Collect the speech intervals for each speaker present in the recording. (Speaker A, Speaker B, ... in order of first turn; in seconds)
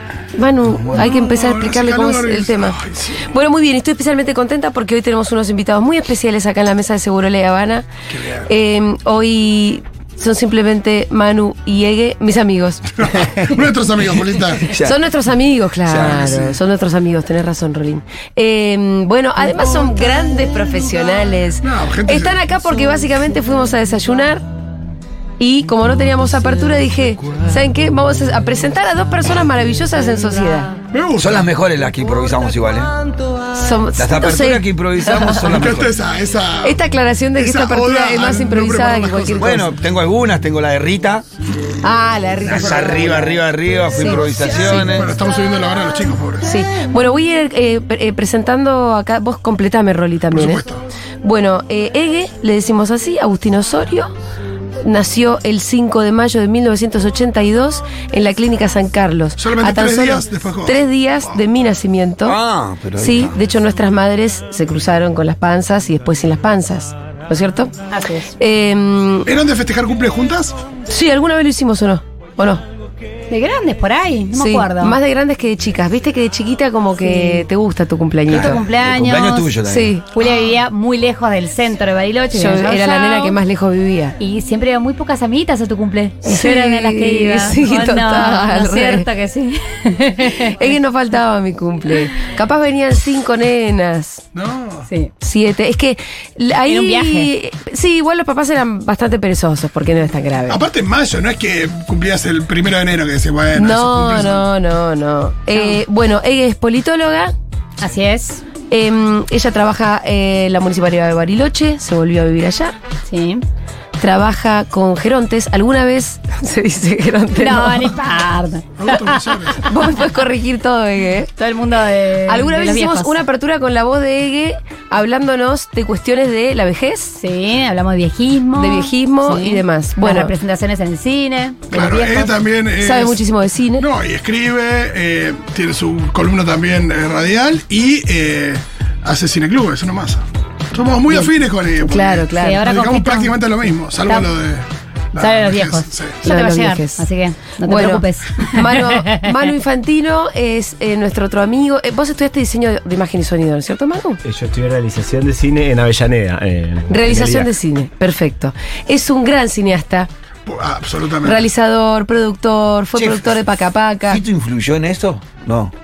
Speaker A: 0.4-2.8, 3.3-7.9, 8.5-12.9, 14.8-24.4, 25.4-30.8, 33.5-35.6, 36.6-39.6, 41.8-43.3, 43.9-44.9, 46.5-50.7, 51.2-54.1, 54.9-62.4, 63.0-67.7, 68.4-69.3, 70.9-72.6, 74.4-78.6, 79.7-80.1, 82.3-84.2, 86.2-89.1, 90.5-94.2, 95.2-100.7, 103.5-107.3, 108.7-112.8, 114.0-118.0, 119.7-121.3, 122.3-127.2, 128.6-130.3, 132.8-133.9, 141.8-142.6, 146.2-147.1, 147.6-154.2, 156.9-160.1, 161.2-164.2
Speaker B: 0.7-1.2, 13.2-13.5, 14.5-14.9, 15.9-16.5, 31.2-32.9, 34.0-35.9, 39.4-41.3, 42.5-45.1, 62.2-63.4, 78.3-80.0, 162.9-163.4, 164.1-165.7
Speaker C: 0.9-3.3, 8.1-8.5, 13.0-14.7, 16.1-16.4, 21.6-22.4, 30.9-31.5, 35.5-36.8, 37.4-39.7, 44.3-46.5, 50.3-50.8, 59.4-60.8, 69.3-70.6, 94.3-94.9, 100.5-104.5, 118.8-119.7, 131.7-133.2, 133.8-140.2, 140.7-146.2, 160.5-161.4
Speaker D: 67.9-68.3, 73.3-75.0, 77.0-77.5, 78.3-79.5, 80.1-83.4, 84.2-90.5, 96.7-97.3, 107.8-108.4, 113.1-113.4, 117.4-119.7, 121.4-123.2, 127.2-132.3, 142.4-143.3, 145.2-149.3
Speaker E: 154.2-157.5